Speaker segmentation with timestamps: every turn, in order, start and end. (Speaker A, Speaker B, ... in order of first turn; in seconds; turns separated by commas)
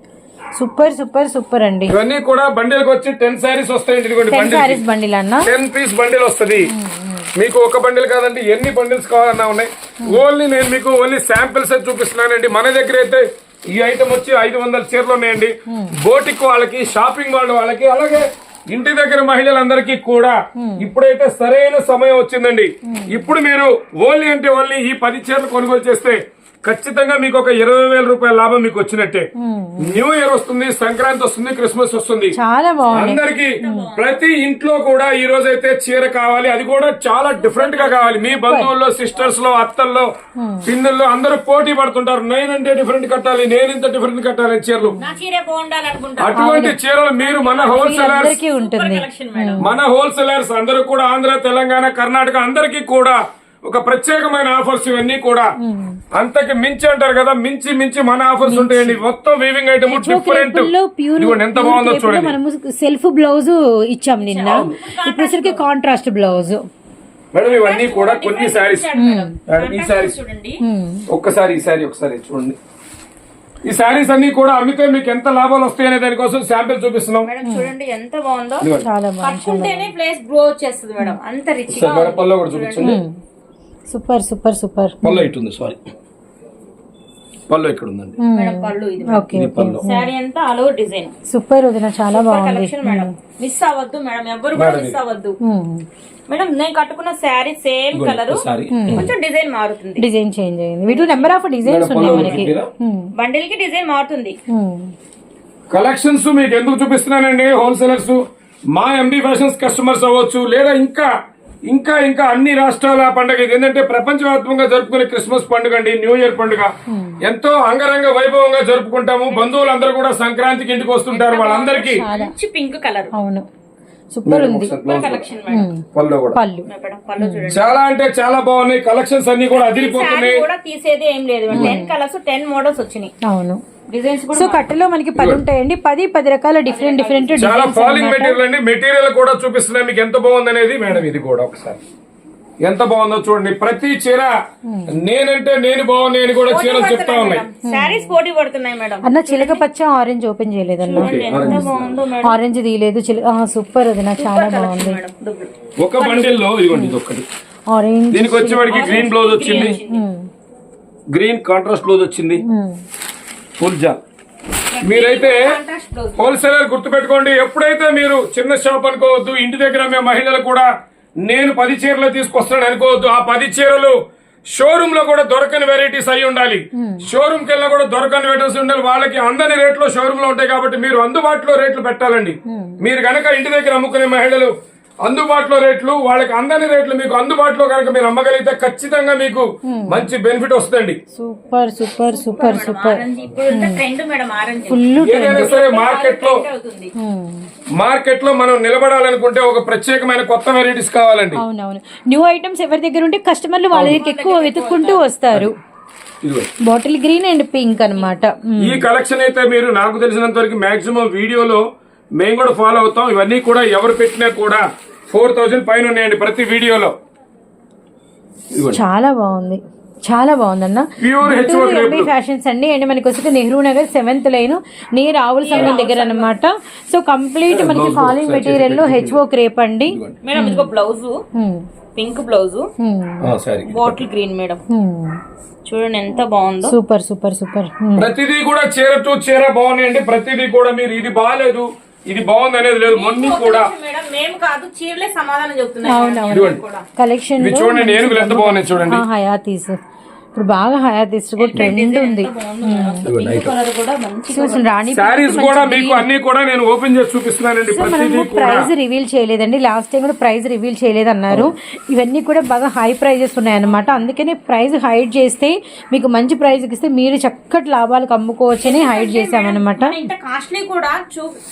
Speaker A: 0.6-2.0, Speaker B: 1.9-4.8, Speaker A: 4.3-5.5, Speaker B: 5.4-6.7, Speaker A: 6.7-7.3, Speaker B: 7.3-29.3, Speaker A: 15.7-16.0, Speaker A: 20.6-20.9, Speaker A: 22.9-23.3, Speaker A: 29.4-30.0, Speaker B: 29.8-32.4, Speaker A: 32.3-33.9, Speaker B: 32.9-40.1, Speaker C: 33.1-34.2, Speaker C: 37.4-38.4, Speaker A: 38.4-38.7, Speaker A: 40.4-40.7, Speaker B: 40.6-45.0, Speaker C: 45.0-46.5, Speaker B: 46.2-48.4, Speaker A: 46.3-46.8, Speaker C: 47.2-49.7, Speaker A: 47.7-49.7, Speaker B: 49.6-55.5, Speaker A: 55.6-56.0, Speaker B: 56.1-62.4, Speaker A: 58.5-59.0, Speaker A: 59.9-66.6, Speaker C: 64.2-65.6, Speaker B: 64.5-64.8, Speaker B: 67.3-68.9, Speaker C: 67.4-70.6, Speaker A: 69.0-69.4, Speaker B: 69.5-70.2, Speaker A: 70.6-71.1, Speaker B: 71.1-72.6, Speaker B: 73.7-77.3, Speaker C: 77.2-83.0, Speaker A: 77.5-77.7, Speaker B: 78.6-78.9, Speaker A: 78.8-79.9, Speaker B: 81.7-83.0, Speaker A: 82.8-83.1, Speaker A: 83.9-85.3, Speaker B: 85.0-85.8, Speaker B: 87.5-88.2, Speaker A: 88.2-90.1, Speaker C: 88.3-89.2, Speaker B: 89.3-89.8, Speaker C: 89.8-91.1, Speaker A: 91.3-93.1, Speaker C: 92.1-95.4, Speaker B: 94.5-95.0, Speaker A: 95.4-95.8, Speaker C: 96.3-100.0, Speaker B: 97.9-99.1, Speaker A: 98.7-99.1, Speaker A: 100.0-103.1, Speaker C: 100.9-101.4, Speaker B: 101.7-102.7, Speaker C: 102.0-102.5, Speaker C: 103.2-104.4, Speaker A: 104.5-104.9, Speaker B: 105.7-111.1, Speaker B: 111.7-116.7, Speaker A: 116.9-117.2, Speaker B: 117.2-122.0, Speaker C: 119.3-119.9, Speaker C: 121.1-123.1, Speaker A: 121.9-122.3, Speaker A: 123.2-123.5, Speaker A: 124.1-124.9, Speaker B: 124.3-125.3, Speaker C: 124.8-125.7, Speaker A: 125.5-126.7, Speaker B: 125.9-126.4, Speaker C: 126.7-127.8, Speaker A: 127.2-127.5, Speaker B: 127.5-130.5, Speaker C: 129.7-133.1, Speaker A: 131.5-131.9, Speaker B: 131.5-131.8, Speaker A: 133.3-133.6, Speaker C: 133.9-134.6, Speaker A: 134.3-138.4, Speaker B: 135.2-135.4, Speaker C: 136.7-137.7, Speaker B: 137.4-141.8, Speaker B: 142.6-144.3, Speaker A: 144.7-144.9, Speaker B: 144.9-147.4, Speaker C: 146.4-149.6, Speaker A: 147.7-148.1, Speaker A: 149.0-155.0, Speaker C: 150.8-152.4, Speaker B: 150.9-152.0, Speaker C: 154.2-156.4, Speaker B: 155.8-157.3, Speaker A: 156.7-157.0, Speaker A: 157.7-160.3, Speaker B: 158.1-159.8, Speaker C: 158.7-160.0, Speaker B: 161.1-162.4, Speaker A: 162.4-162.8, Speaker B: 163.6-164.0, Speaker C: 164.7-166.5, Speaker B: 164.8-165.5, Speaker B: 166.2-170.7, Speaker B: 171.2-174.0, Speaker B: 174.5-191.0, Speaker A: 176.8-177.1, Speaker A: 182.5-182.8, Speaker A: 189.7-190.1, Speaker A: 191.2-193.8, Speaker C: 192.1-196.9, Speaker A: 194.7-195.6, Speaker B: 195.0-196.4, Speaker A: 197.0-197.5, Speaker B: 197.8-201.4, Speaker A: 201.4-205.6, Speaker B: 203.7-204.0, Speaker C: 203.8-205.0, Speaker B: 206.2-206.5, Speaker A: 206.6-208.9, Speaker B: 208.6-211.6, Speaker B: 212.2-216.9, Speaker B: 218.5-218.8, Speaker A: 218.7-230.7, Speaker B: 221.0-222.1, Speaker C: 225.4-226.3, Speaker B: 227.5-229.2, Speaker B: 229.9-230.2, Speaker C: 230.2-231.2, Speaker A: 231.3-231.7, Speaker C: 232.0-232.7, Speaker A: 232.8-233.3, Speaker B: 233.2-234.0, Speaker C: 233.7-234.6, Speaker A: 234.7-235.2, Speaker C: 235.7-236.8, Speaker A: 236.7-238.1, Speaker B: 238.0-243.7, Speaker C: 242.8-246.8, Speaker A: 245.8-249.8, Speaker B: 246.3-246.6, Speaker B: 247.4-249.1, Speaker A: 250.3-253.1, Speaker C: 251.4-254.7, Speaker B: 251.5-251.8, Speaker B: 253.1-253.5, Speaker A: 254.3-256.1, Speaker B: 254.9-258.7, Speaker A: 257.7-270.0, Speaker C: 268.6-271.4